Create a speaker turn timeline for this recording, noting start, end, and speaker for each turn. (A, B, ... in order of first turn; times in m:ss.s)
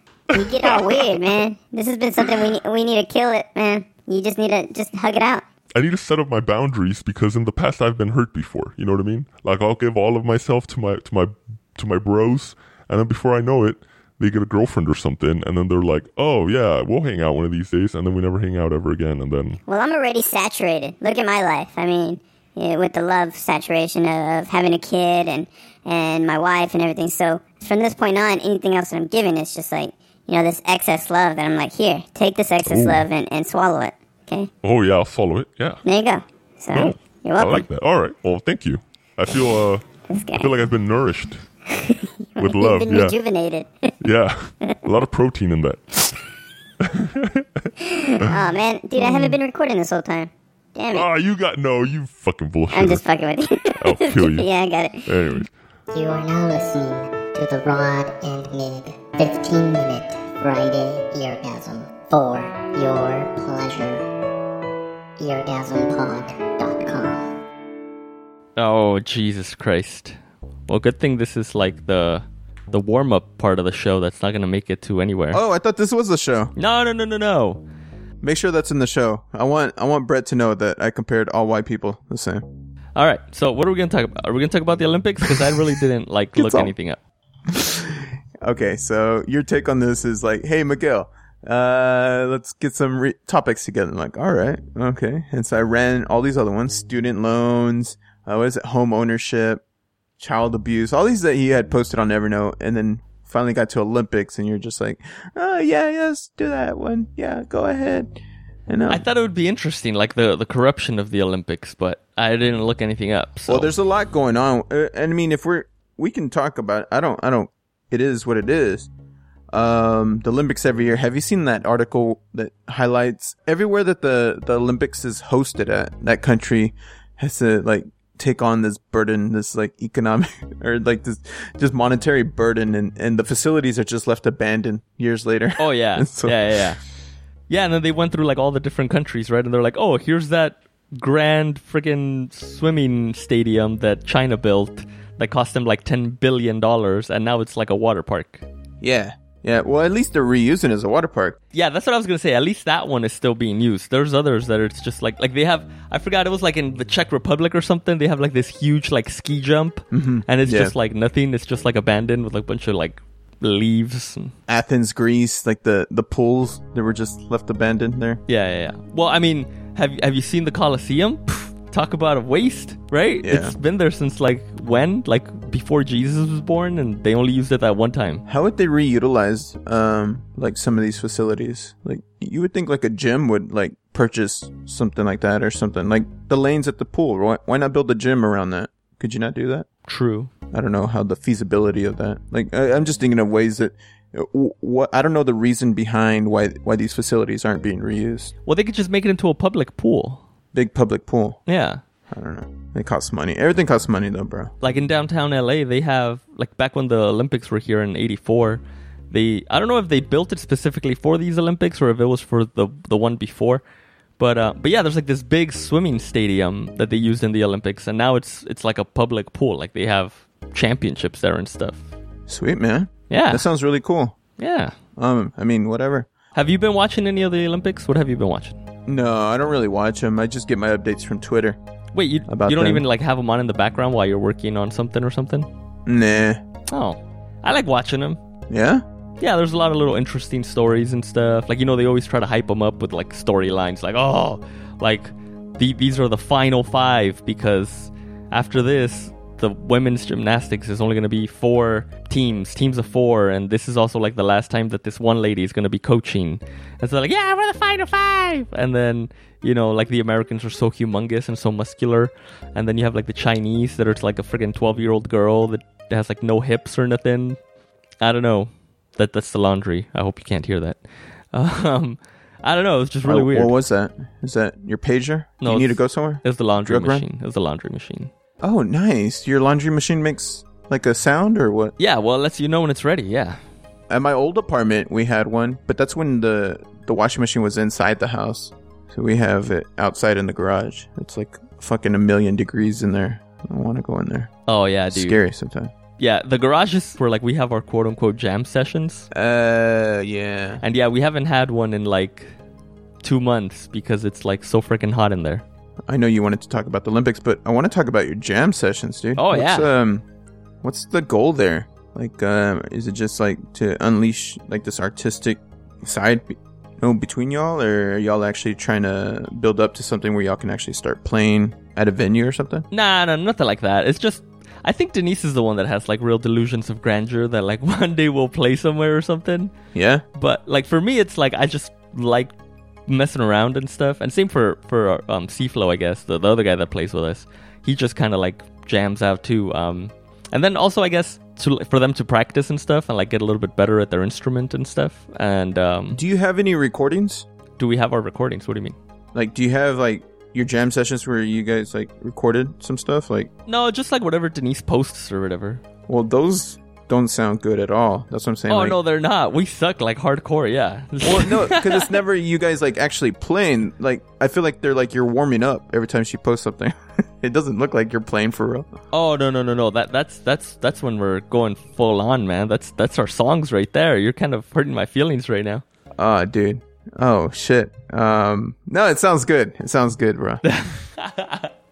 0:00.3-0:05.4 A
0:00.4-0:00.8 B
0:05.8-0:19.6 B
0:19.7-0:34.5 A
0:32.6-0:33.0 B
0:34.6-0:35.8 B
0:35.8-0:37.6 A
0:36.7-0:39.8 B
0:40.1-0:40.6 A
0:40.4-0:41.4 B
0:41.7-0:43.9 A
0:42.4-0:43.2 B
0:44.0-0:46.3 B
0:46.8-0:47.4 B
0:47.8-0:51.1 A
0:49.0-0:49.3 B
0:50.9-0:53.0 B
0:52.7-0:55.0 A
0:53.8-0:54.5 B
0:55.0-0:55.5 B
0:55.9-1:04.1 C
1:05.2-1:07.3 C
1:08.6-1:10.2 D
1:10.7-1:15.4 D
1:15.3-1:16.5 E
1:16.6-1:17.6 D
1:18.2-1:22.4 E
1:23.0-1:27.0 D
1:26.4-1:26.7 E
1:27.5-1:39.6 E
1:40.2-1:48.2 E
1:48.7-1:49.0 E
1:48.9-1:53.7 D
1:53.5-1:58.9 E
1:59.5-2:16.7 E
2:15.6-2:16.8 D
2:17.5-2:28.5 D
2:28.8-2:31.4 E
2:31.5-2:44.3 D
2:39.9-2:40.8 E
2:44.5-2:48.2 E
2:48.3-2:58.3 D
2:53.2-2:53.6 E
2:58.3-3:09.7 E
3:09.9-3:10.3 D
3:10.5-3:18.3 E
3:18.4-3:20.2 D
3:20.5-3:21.4 E
3:21.5-3:21.8 D
3:22.1-3:24.5 E
3:24.6-3:33.6 D
3:34.2-3:41.8 D
3:42.3-3:44.2 E
3:43.1-3:43.5 D
3:44.4-3:44.7 D
3:45.0-3:46.1 E
3:46.3-3:48.6 D
3:48.9-3:51.6 E
3:51.9-3:55.5 D
3:52.3-3:52.9 E
3:55.9-3:56.4 E
3:56.7-3:58.2 D
3:58.5-3:58.8 E
3:59.2-4:27.4 D
4:28.0-4:30.8 D
4:31.3-4:33.6 D
4:33.0-4:37.0 E
4:35.4-4:38.1 D
4:38.4-4:41.8 E
4:41.8-4:43.4 D
4:43.9-4:54.3 E
4:54.5-4:55.2 D
4:54.9-4:55.7 E
4:56.0-4:59.1 D
4:59.1-5:00.6 E
5:00.6-5:02.4 D
5:03.0-5:05.4 D
5:05.9-5:10.0 E
5:09.2-5:09.7 D
5:10.6-5:22.7 E
5:22.7-5:29.5 D
5:29.7-5:30.0 E
5:30.2-5:32.3 D
5:32.9-5:46.0 D
5:45.9-5:47.3 E
5:47.6-5:48.8 D
5:49.1-5:53.3 E
5:53.5-5:55.6 D
5:55.9-5:58.8 E
5:58.5-6:02.0 D
6:01.0-6:08.7 E
6:08.9-6:15.6 D
6:16.0-6:20.4 E
6:20.5-6:21.5 D